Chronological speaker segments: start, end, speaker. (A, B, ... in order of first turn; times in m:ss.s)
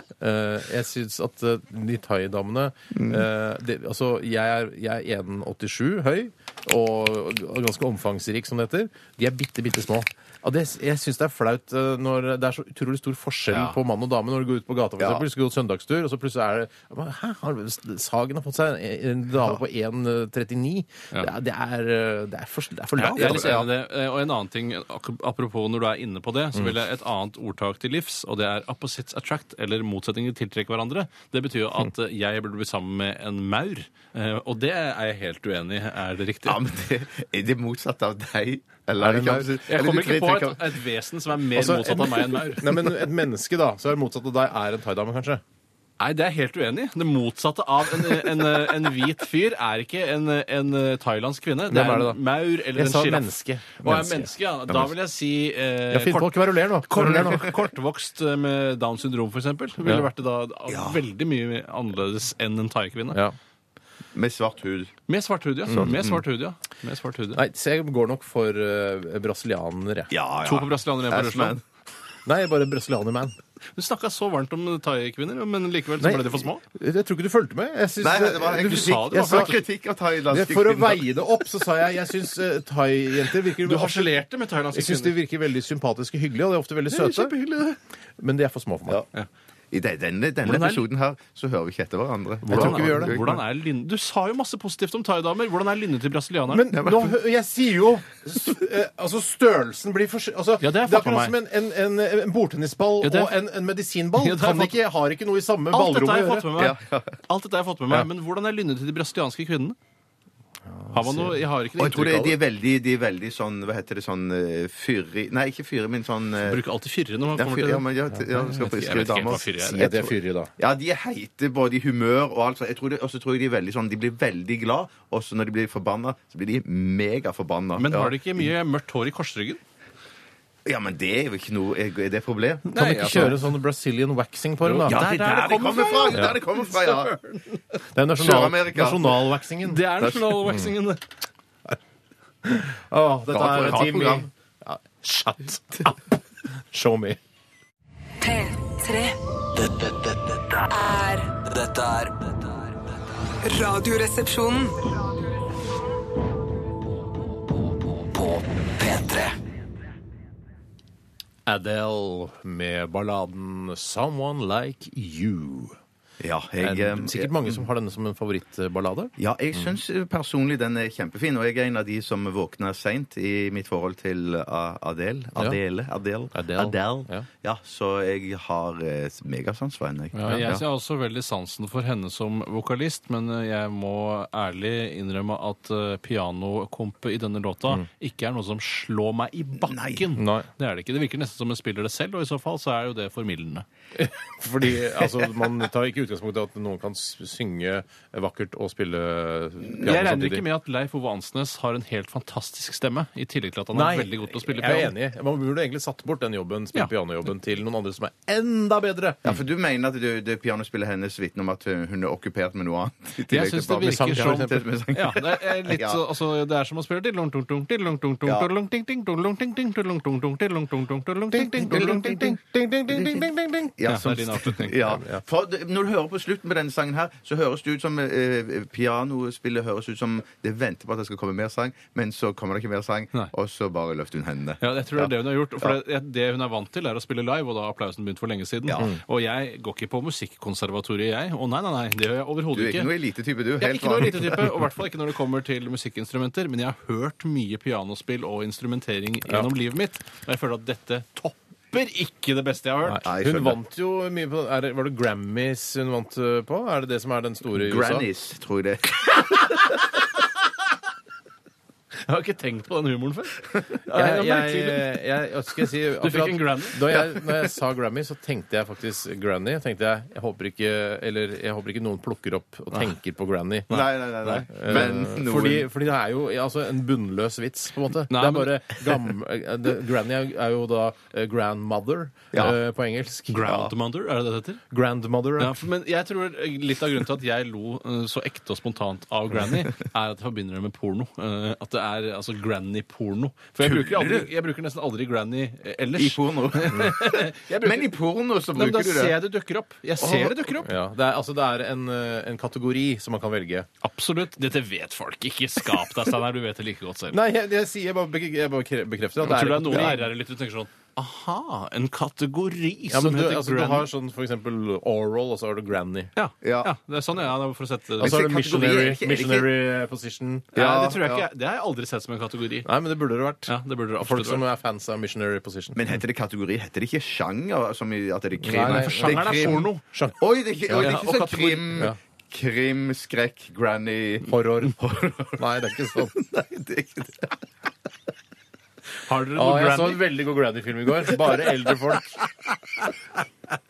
0:00.2-0:23.7 A
0:03.0-0:03.2 B
0:15.0-0:15.2 B
0:23.0-0:36.6 C
0:23.0-0:23.5 B
0:36.4-0:40.8 B
0:39.0-0:39.5 A
0:39.7-0:42.8 C
0:41.6-0:45.4 A
0:46.0-1:03.2 C
0:51.7-0:52.2 A
0:52.7-0:54.9 A
0:55.9-0:57.6 A
0:57.0-0:57.5 B
1:00.7-1:01.0 B
1:04.1-1:04.9 B
1:05.1-1:07.4 C
1:05.7-1:06.0 A
1:05.8-1:06.2 B
1:07.4-1:10.1 A
1:10.1-1:11.6 B
1:10.4-1:11.6 C
1:12.3-1:13.4 A
1:13.8-1:16.6 C
1:16.0-1:19.5 A
1:18.0-1:21.1 B
1:18.7-1:19.5 C
1:20.3-1:24.2 A
1:23.6-1:25.2 C
1:24.7-1:27.3 A
1:26.9-1:27.8 C
1:28.2-1:29.0 A
1:29.7-1:33.3 B
1:30.4-1:30.9 C
1:32.4-1:33.4 A
1:32.5-1:36.7 C
1:36.5-1:46.5 A
1:36.7-1:37.1 B
1:40.6-1:41.4 C
1:43.0-1:43.4 C
1:44.2-1:44.8 C
1:45.7-1:49.8 C
1:46.5-1:47.2 B
1:50.8-1:51.4 A
1:50.9-1:52.4 C
1:51.8-1:56.6 B
1:56.4-1:59.9 C
1:57.3-2:08.2 B
1:59.7-2:00.5 A
2:07.8-2:09.6 C
2:10.7-2:13.4 B
2:12.7-2:13.5 C
2:12.8-2:15.0 A
2:14.6-2:17.8 C
2:14.9-2:17.2 B
2:18.0-2:19.8 A
2:18.2-2:19.3 B
2:19.6-2:21.0 C
2:20.0-2:20.5 B
2:22.4-2:26.1 A
2:23.3-2:24.3 B
2:26.7-2:27.2 A
2:28.2-2:29.2 D
2:29.6-2:30.7 E
2:30.7-2:31.3 D
2:31.4-2:32.8 E
2:33.4-2:34.8 D
2:37.6-2:39.4 E
2:41.5-2:45.8 A
2:46.2-2:47.6 B
2:46.6-2:49.7 A
2:49.2-3:00.6 B
2:56.3-2:57.3 A
3:00.2-3:00.5 A
3:00.2-3:13.7 C
3:09.7-3:10.0 B
3:10.2-3:10.5 A
3:14.0-3:20.4 A
3:19.8-3:24.9 C
3:23.7-3:29.4 A
3:29.2-3:36.0 B
3:33.3-3:42.3 C
3:33.8-3:34.6 A
3:41.3-3:43.7 A
3:41.7-3:42.4 B
3:42.9-3:55.8 B
3:43.9-3:45.0 C
3:44.9-3:45.2 A
3:54.6-4:02.9 C
3:58.7-3:58.9 B
4:02.5-4:04.5 B
4:03.6-4:13.0 C
4:12.9-4:18.1 A
4:13.0-4:13.6 B
4:17.5-4:19.7 B
4:21.9-4:24.9 C
4:23.9-4:33.7 A
4:26.0-4:26.9 C
4:33.7-4:34.9 C
4:33.7-4:35.7 B
4:34.5-4:43.4 A
4:38.1-4:38.6 C
4:43.3-4:44.6 C
4:43.4-4:43.7 B
4:44.7-4:45.6 A
4:45.4-4:57.9 C
4:53.6-4:54.3 B
4:56.0-4:59.2 B
4:58.5-5:00.7 C
5:00.0-5:00.4 B
5:00.6-5:03.7 A
5:03.8-5:07.2 C
5:07.1-5:10.0 A
5:09.2-5:13.9 C
5:09.7-5:10.0 B
5:12.9-5:16.1 A
5:16.2-5:18.2 C
5:16.4-5:16.7 B
5:18.0-5:19.5 B
5:18.0-5:21.0 A
5:20.6-5:22.7 C
5:20.6-5:21.3 B
5:22.7-5:25.8 A
5:23.5-5:24.4 C
5:25.8-5:37.4 B
5:28.4-5:30.2 A
5:28.6-5:29.8 C
5:30.7-5:31.8 C
5:34.2-5:34.8 A
5:35.4-5:36.1 A
5:39.1-5:40.0 C
5:39.4-5:42.2 A